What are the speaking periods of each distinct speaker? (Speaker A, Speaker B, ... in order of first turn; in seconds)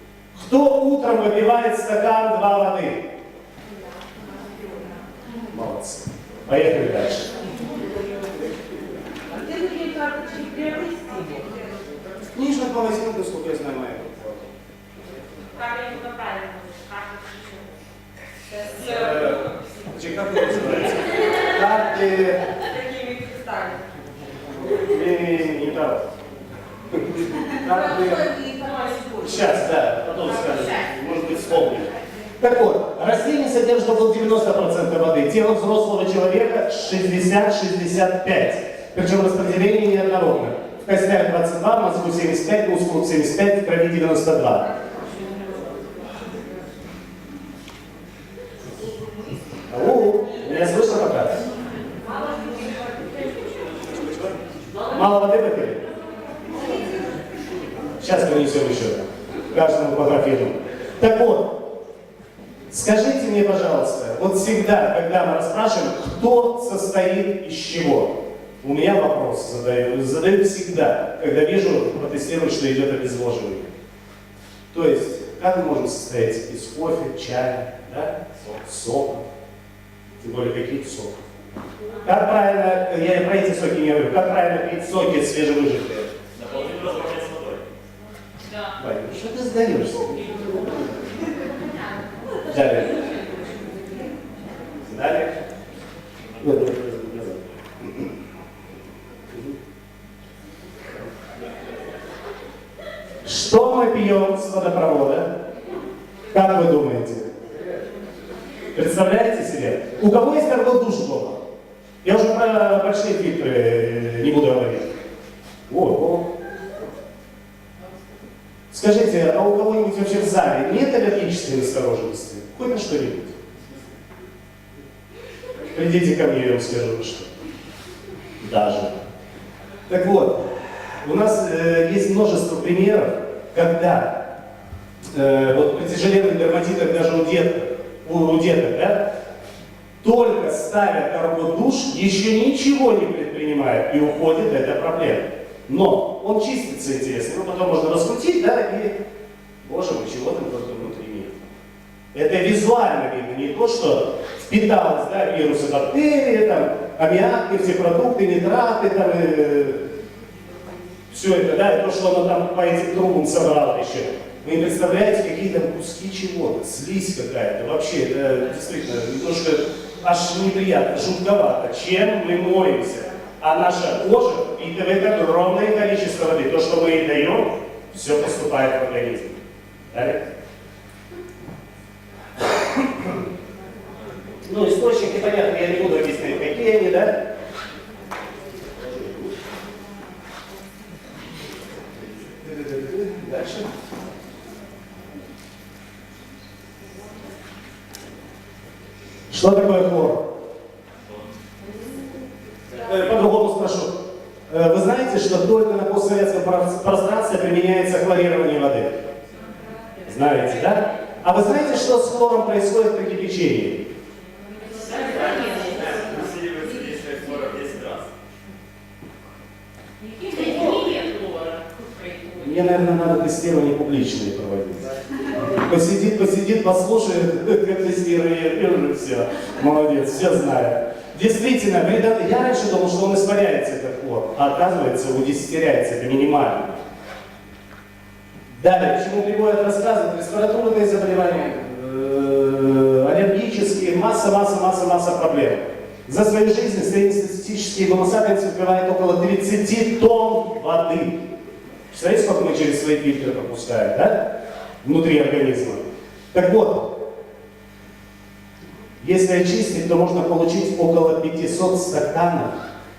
Speaker A: 0.3-3.0, 5.5-7.3, 12.3-14.5, 18.8-22.5, 24.6-26.0, 26.9-28.3, 29.2-44.7, 49.7-51.4, 54.9-55.8, 58.0-61.5, 62.7-73.7, 74.7-79.3, 80.2-81.2, 82.0-86.1, 88.8-90.9, 92.4-93.0, 94.8-95.3, 96.4-98.1, 103.2-105.3, 106.3-107.3, 108.7-111.4, 112.0-114.9, 115.7-116.3, 118.7-123.4, 125.7-127.3, 128.4-128.9, 129.9-130.5, 131.0-134.2, 135.1-139.0, 140.0-148.9, 149.6-151.3, 152.1-159.8, 161.1-179.4, 179.9-180.2, 182.4-183.1, 184.4-187.2, 188.8-189.3, 192.4-193.7, 199.3-200.2, 202.8-203.9, 204.5-208.9, 210.0-213.8, 222.3-224.8, 225.4-236.8, 238.6-251.2, 251.9-254.3, 254.8-256.9, 259.0-262.6
Speaker B: 9.3-11.6, 27.7-29.2, 56.6-57.0
Speaker C: 15.5-17.6, 22.7-23.8, 52.1-53.6, 214.9-215.3, 220.0-222.3
Speaker D: 86.4-87.7, 214.9-218.1